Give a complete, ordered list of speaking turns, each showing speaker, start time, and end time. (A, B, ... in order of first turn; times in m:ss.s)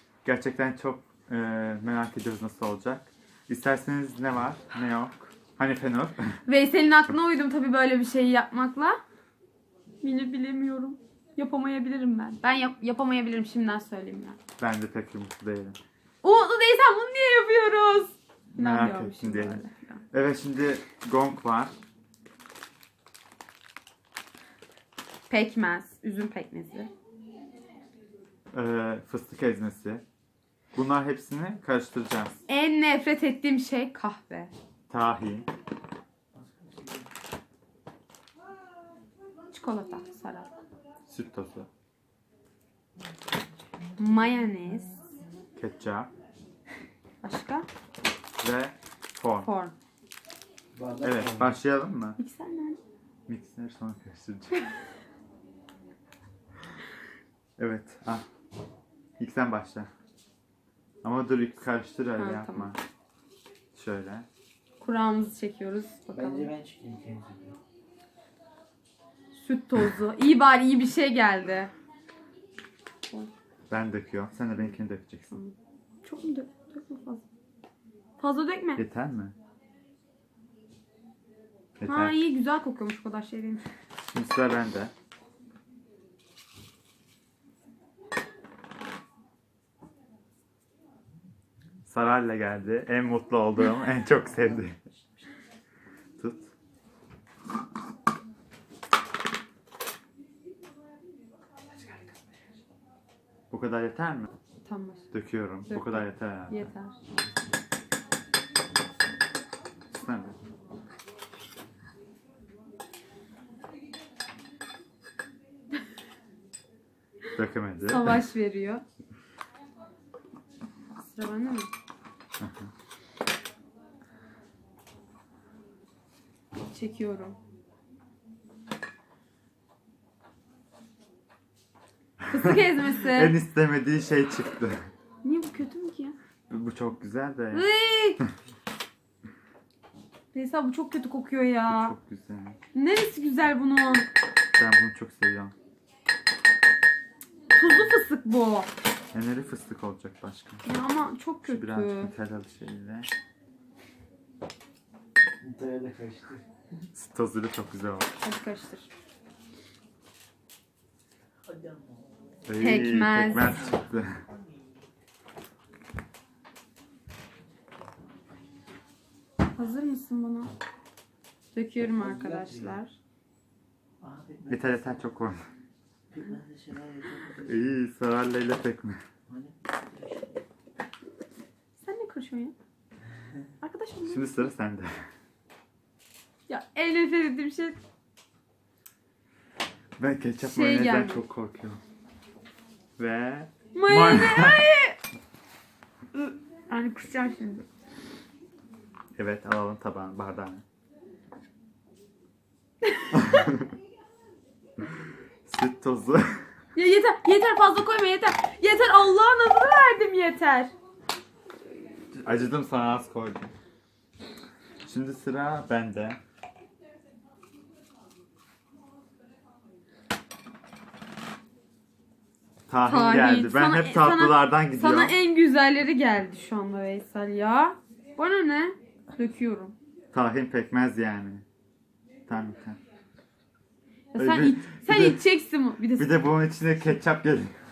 0:00.2-0:06.4 A
0:06.5-0:09.0 B
0:10.0-0:14.4 B
0:14.6-0:15.8 A
0:16.2-0:20.0 B
0:18.6-0:21.7 A
0:25.3-0:26.9 B
0:28.5-0:30.0 A
0:30.7-0:32.4 A
0:32.5-0:34.5 B
0:34.9-0:35.5 A
0:36.4-0:37.0 C
0:39.5-0:40.5 B
0:41.1-0:41.7 A
0:44.0-0:45.0 B
0:45.6-0:46.1 A
0:47.2-0:47.6 B
0:48.4-0:49.5 A
0:49.4-0:49.7 B
0:50.7-0:51.6 C
0:51.0-0:52.2 A
0:52.2-0:52.8 B
0:53.3-0:54.6 A
0:57.6-0:58.2 A
0:59.2-0:59.9 A
1:01.0-1:02.8 A
1:02.2-1:02.7 B
1:03.7-1:04.3 A
1:04.8-1:06.5 B
1:06.1-1:07.6 C
1:09.3-1:11.7 B
1:13.7-1:15.4 A
1:15.3-1:17.2 B
1:18.2-1:18.8 B
1:18.8-1:19.3 A
1:21.8-1:22.1 A
1:21.9-1:23.6 B
1:24.0-1:24.9 A
1:31.9-1:34.8 A
1:34.0-1:35.2 C
1:36.2-1:36.5 A
1:43.5-1:44.3 A
1:44.6-1:45.1 B
1:45.1-1:46.7 A
1:45.7-1:46.9 B
1:49.9-1:50.4 A
1:57.3-1:58.2 A
1:57.8-1:58.8 B
2:01.0-2:01.7 B
2:02.4-2:02.7 A
2:06.6-2:07.4 B
2:12.3-2:13.4 B
2:12.3-2:14.9 A
2:15.2-2:16.2 B
2:16.5-2:17.7 A
2:17.5-2:18.2 B
2:20.3-2:21.9 B
2:21.7-2:22.6 A
2:22.7-2:24.1 B
2:24.6-2:25.5 A
2:27.6-2:28.7 B
2:29.1-2:30.7 A
2:30.6-2:32.1 B
2:31.4-2:33.1 A
2:35.4-2:36.4 C
2:36.9-2:38.1 A
2:38.2-2:38.9 B
2:41.5-2:42.2 C
2:42.4-2:44.2 A
2:42.6-2:43.7 B
2:43.3-2:44.7 C
2:49.5-2:50.5 B
2:51.5-2:52.9 B
2:51.8-2:52.8 C
2:54.0-2:55.1 C
2:54.5-2:55.4 A
2:56.1-2:57.7 C
2:57.4-2:59.0 A
2:59.3-3:00.4 C
3:01.8-3:02.5 B
3:03.6-3:04.5 B
3:04.0-3:04.9 A
3:06.5-3:07.8 B
3:10.0-3:11.8 A
3:10.4-3:11.2 B
3:13.0-3:14.6 A
3:13.7-3:15.0 B
3:16.1-3:17.6 B
3:19.2-3:20.6 A
3:22.8-3:23.4 B
3:23.1-3:23.7 A
3:25.4-3:26.4 A
3:26.7-3:30.7 B
3:32.2-3:33.5 A
3:34.8-3:36.2 A
3:42.7-3:45.1 A
3:42.8-3:49.7 B
3:50.1-3:51.4 A
3:52.3-3:52.8 A
3:54.1-3:55.2 A
3:54.1-3:56.1 B
3:56.0-3:57.5 A